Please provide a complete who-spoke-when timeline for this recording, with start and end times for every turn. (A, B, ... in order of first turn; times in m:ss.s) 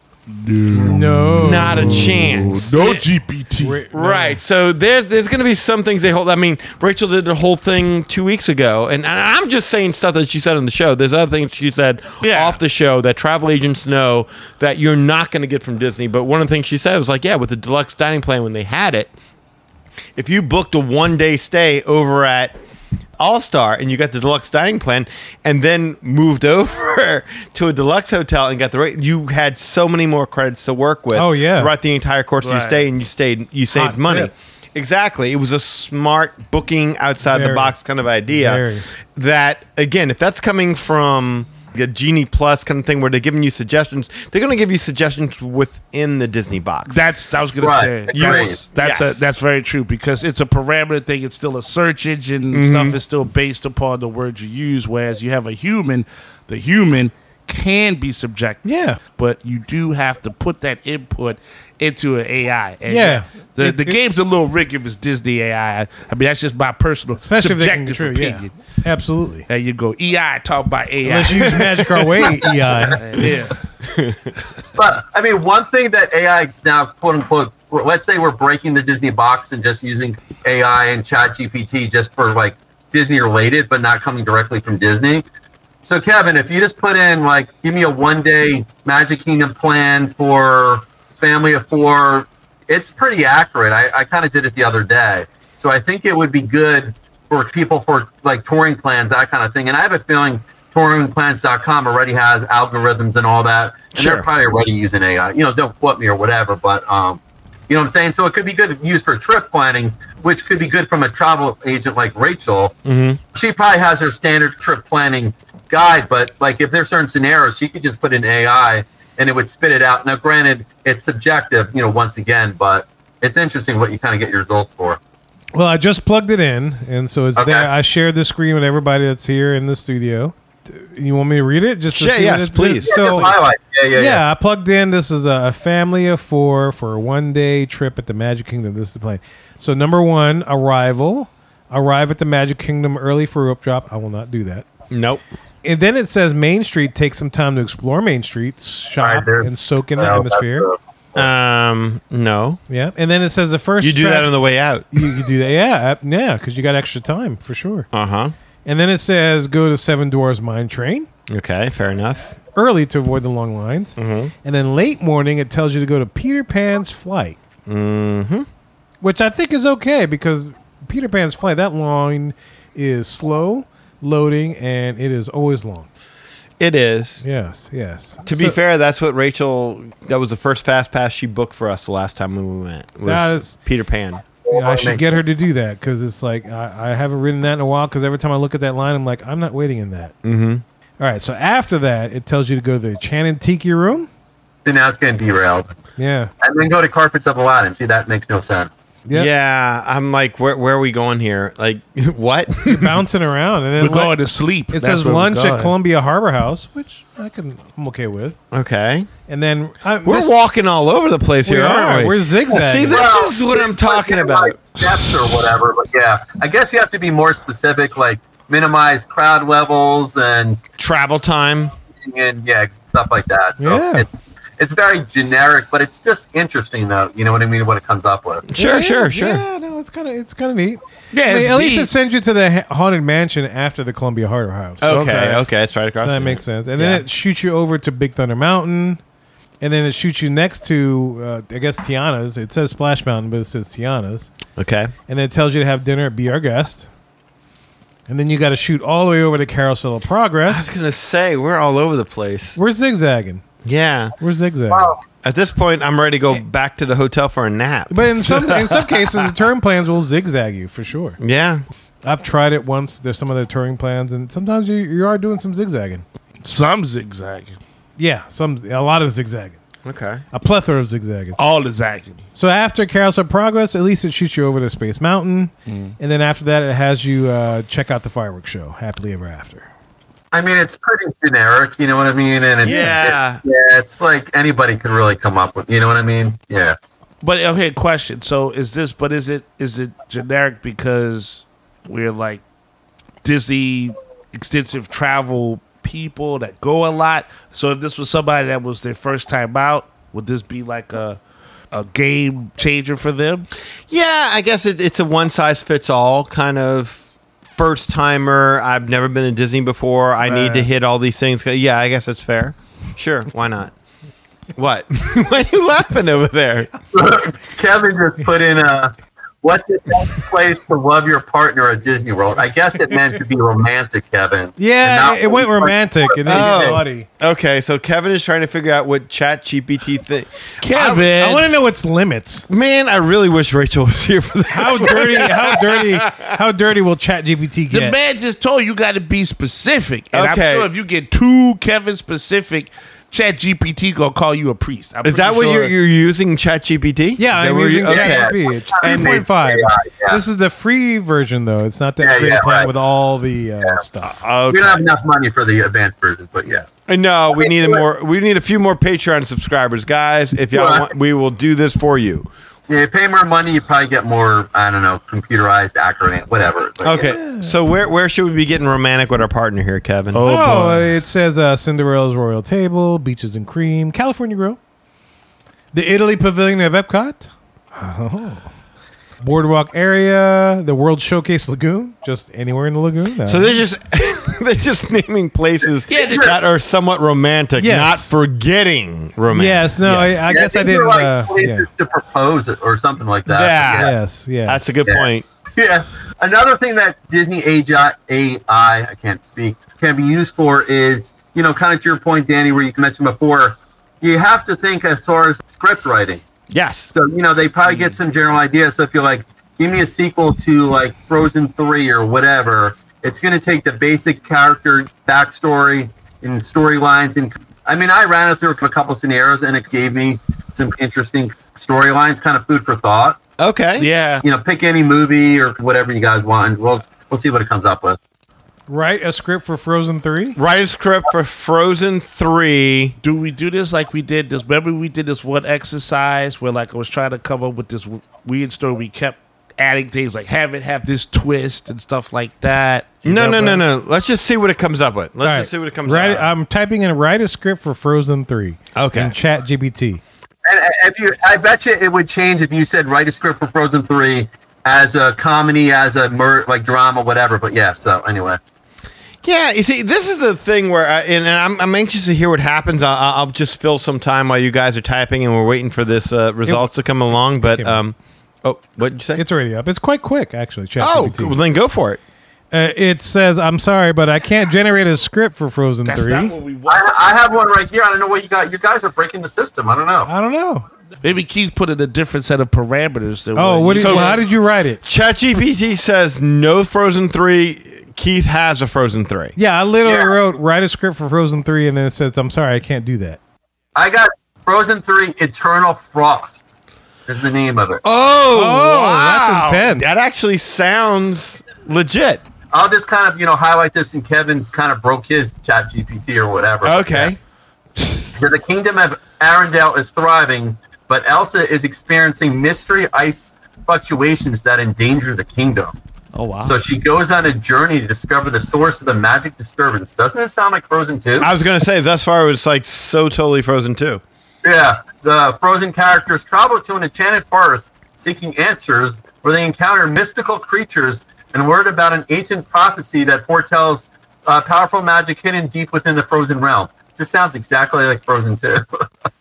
0:00.3-0:03.8 A
0:00.7-0:02.1 B
0:01.4-0:03.1 C
0:03.6-0:04.4 B
0:03.9-0:19.1 C
0:12.2-0:12.6 A
0:20.2-0:22.5 C
0:23.2-0:47.0 C
0:31.1-0:31.7 B
0:32.4-0:32.8 A
0:33.7-0:34.3 B
0:37.2-0:37.7 B
0:38.3-0:38.9 B
0:46.9-1:08.5 A
0:47.6-0:48.6 D
0:48.1-0:49.2 C
0:52.5-0:53.0 C
0:58.6-0:59.0 B
1:02.8-1:04.0 B
1:07.2-1:09.4 B
1:09.5-1:12.2 A
1:11.0-1:13.0 B
1:12.9-1:13.6 A
1:13.8-1:14.3 C
1:14.8-1:25.2 D
1:25.8-1:52.7 D
1:43.9-1:44.3 C
1:52.8-1:53.2 C
1:53.3-2:05.0 D
2:05.5-2:13.4 B
2:07.4-2:07.7 D
2:11.9-2:13.4 C
2:12.8-2:14.2 D
2:13.9-2:24.6 B
2:24.9-2:25.2 C
2:25.6-2:30.7 B
2:29.0-2:31.2 D
2:31.1-2:32.6 C
2:32.7-2:34.3 B
2:33.8-2:34.9 C
2:34.9-2:37.9 B
2:37.9-2:38.3 C
2:38.6-2:41.1 B
2:41.3-2:42.4 C
2:42.6-2:47.4 B
2:44.0-2:44.3 C
2:47.7-2:48.5 C
2:49.0-2:55.9 B
2:56.6-2:57.2 C
2:57.2-2:58.6 B
2:58.2-3:04.2 C
3:03.0-3:03.6 B
3:04.4-3:05.1 D
3:04.5-3:10.1 B
3:10.2-3:10.6 C
3:11.0-3:14.1 B
3:14.6-3:15.7 D
3:16.0-3:16.3 B
3:16.4-3:18.8 D
3:19.1-3:23.0 C
3:22.6-3:24.1 B
3:23.8-3:25.7 A
3:24.7-3:28.4 B
3:28.5-3:29.1 C
3:29.3-3:30.3 B
3:30.0-3:35.1 C
3:31.4-3:33.0 B
3:32.9-3:40.6 D
3:40.8-3:41.7 C
3:41.9-3:48.4 D
3:43.6-3:44.0 B
3:48.4-3:49.4 C
3:48.6-3:55.4 B
3:51.1-3:51.9 A
3:54.8-3:57.0 C
3:54.9-3:55.2 A
3:56.0-3:59.0 B
3:59.6-4:04.3 B
4:04.6-4:04.9 C
4:05.1-4:06.9 B
4:08.1-4:10.7 B
4:10.4-4:12.6 C
4:12.6-4:13.4 B
4:13.6-4:14.1 C
4:14.2-4:14.9 B
4:14.7-4:15.0 D
4:15.2-4:19.3 C
4:17.9-4:21.2 B
4:21.2-4:21.6 C
4:22.0-4:26.0 B
4:26.4-4:27.6 A
4:28.0-4:29.6 B
4:29.8-4:30.2 C
4:30.3-4:31.4 B
4:31.4-4:32.2 A
4:32.3-4:39.7 B
4:35.7-4:35.9 A
4:40.3-4:46.8 D
4:42.6-4:43.4 C
4:47.2-4:52.4 A
4:53.2-5:01.2 A
5:01.7-5:03.5 A
5:03.9-5:07.0 C
5:07.5-5:13.7 C
5:10.2-5:10.7 A
5:14.6-5:16.7 C
5:16.9-5:26.8 D
5:24.6-5:27.1 B
5:26.3-5:31.1 C
5:30.6-5:31.5 A
5:31.2-5:32.5 B
5:32.5-5:36.3 C
5:34.5-5:38.0 B
5:37.7-5:45.8 A
5:40.1-5:40.7 C
5:45.0-5:49.2 C
5:47.2-5:54.2 B
5:47.9-5:50.2 D
5:52.0-5:52.7 D
5:54.0-5:54.8 C
5:54.5-5:56.7 D
5:56.9-6:02.3 C
5:57.3-5:57.8 D
6:00.5-6:00.9 D
6:02.7-6:07.1 D
6:06.8-6:10.2 C
6:07.0-6:07.5 B
6:10.1-6:10.9 A
6:10.2-6:14.6 B
6:15.7-6:18.5 B
6:19.2-6:23.6 B
6:23.2-6:30.2 C
6:25.9-6:26.4 A
6:26.0-6:26.3 D
6:27.6-6:28.2 B
6:29.3-6:31.7 B
6:30.3-6:33.9 D
6:33.2-6:33.9 C
6:33.7-6:34.7 B
6:34.4-6:35.2 C
6:34.8-6:46.2 D
6:46.5-6:46.9 C
6:46.9-7:03.2 D
6:47.7-6:47.9 A
7:03.4-7:03.9 C
7:03.8-7:04.2 A
7:04.2-7:08.0 D
7:08.7-7:10.4 B
7:10.4-7:13.0 C
7:13.0-7:23.6 A
7:23.0-7:26.3 C
7:25.2-7:30.0 B
7:28.7-7:29.1 C
7:30.4-7:38.4 D
7:39.2-7:49.2 C
7:47.2-7:47.8 B
7:49.2-7:51.4 B
7:50.8-7:52.0 C
7:52.5-7:56.3 B
7:55.8-7:57.1 A
7:56.7-8:00.1 D
8:00.0-8:00.6 B
8:01.0-8:04.2 A
8:03.3-8:04.8 B
8:03.8-8:04.2 C
8:04.8-8:09.4 C
8:09.4-8:13.2 B
8:09.8-8:10.1 D
8:13.8-8:16.5 D
8:17.1-8:17.8 D
8:17.8-8:22.2 C
8:18.3-8:19.9 B
8:22.5-8:27.1 D
8:26.6-8:27.2 C
8:28.1-8:35.7 D
8:36.1-8:36.6 A
8:36.4-8:41.3 D
8:41.2-8:44.0 C
8:44.4-8:58.8 D